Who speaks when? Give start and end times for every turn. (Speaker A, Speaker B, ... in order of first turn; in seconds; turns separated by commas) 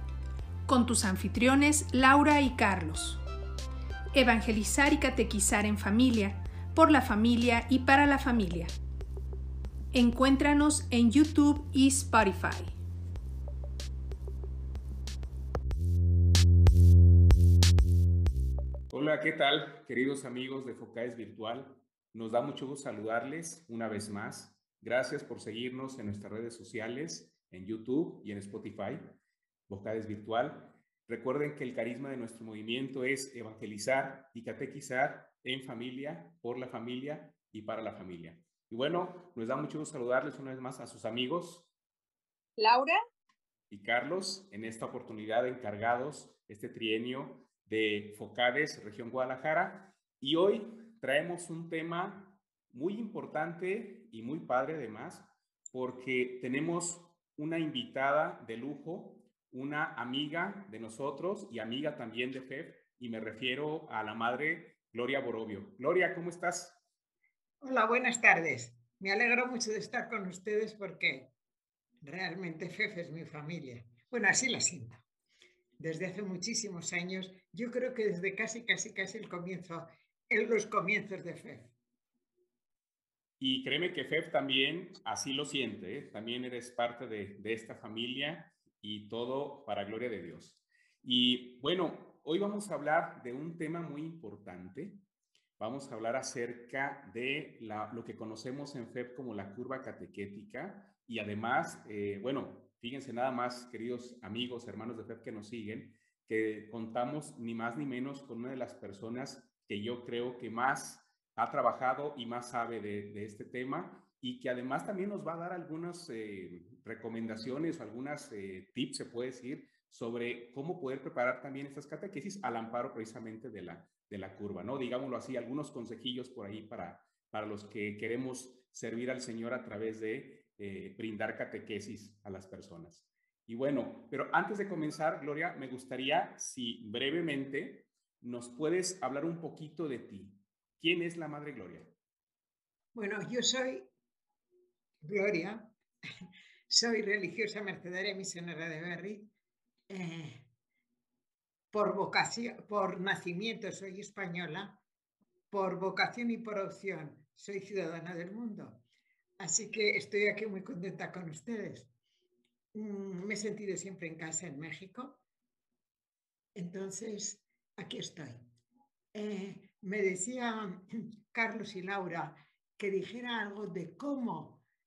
Speaker A: 0.7-3.2, Speaker A: 4.1-8.7, Speaker A: 9.9-12.8, Speaker B: 18.9-29.2, Speaker B: 29.7-41.7, Speaker A: 42.6-43.0, Speaker B: 43.7-66.8, Speaker C: 67.6-71.3, Speaker C: 72.0-75.0, Speaker C: 75.8-81.7, Speaker B: 83.4-95.0, Speaker B: 95.6-141.9, Speaker C: 142.9-143.9, Speaker C: 145.0-145.7, Speaker C: 146.7-149.3, Speaker C: 149.9-150.5, Speaker C: 151.7-154.8, Speaker C: 155.5-158.8, Speaker C: 159.4-161.9, Speaker C: 162.7-165.2, Speaker C: 166.6-168.5, Speaker C: 169.1-174.6